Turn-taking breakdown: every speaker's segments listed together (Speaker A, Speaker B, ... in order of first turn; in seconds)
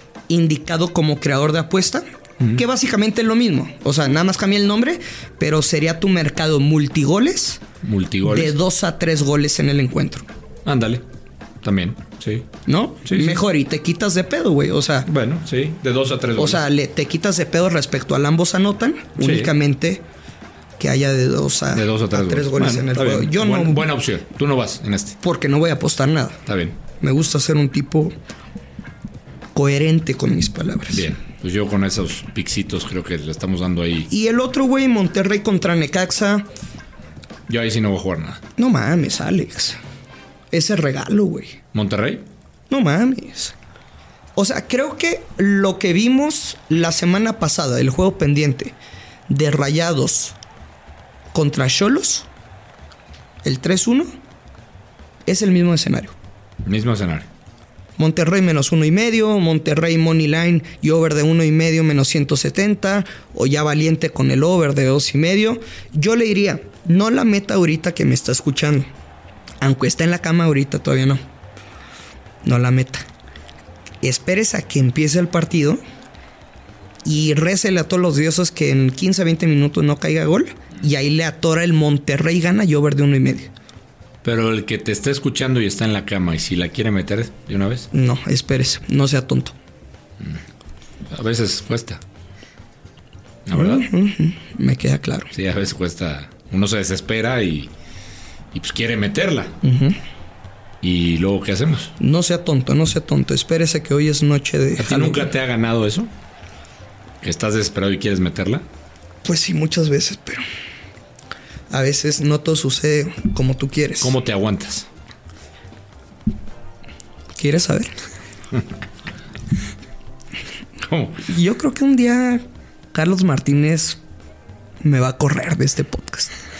Speaker A: 0.3-7.6, 8.2-10.2, 12.7-15.1, 16.4-20.0, 20.8-23.8, 25.2-26.4, 27.0-28.1, 29.5-31.1, 34.1-36.5, 38.6-39.8, 40.5-41.6, 42.7-43.5, 44.3-48.7, 49.3-50.4, 51.3-52.3, 53.4-54.0, 55.2-56.1, 58.0-68.9, 69.6-71.2, 72.4-73.0, 74.0-75.8, 77.0-83.5, 87.9-89.5, 93.5-95.3, 99.6-100.0, 102.0-105.3, 109.2-110.4, 111.7-114.2, 117.3-117.9, 121.2-124.0, 124.8-126.3
Speaker B: 7.8-8.5, 10.6-11.0, 11.6-12.5, 13.1-13.4, 15.1-16.6, 19.2-19.5, 21.7-25.2, 26.4-26.8, 30.9-34.1, 37.5-38.4, 41.7-42.2, 56.6-57.3, 84.2-87.9, 91.1-92.0, 93.5-93.8, 95.3-97.7, 98.5-99.5, 100.8-101.9, 104.8-106.1, 107.2-108.6, 114.0-114.8, 120.8-121.2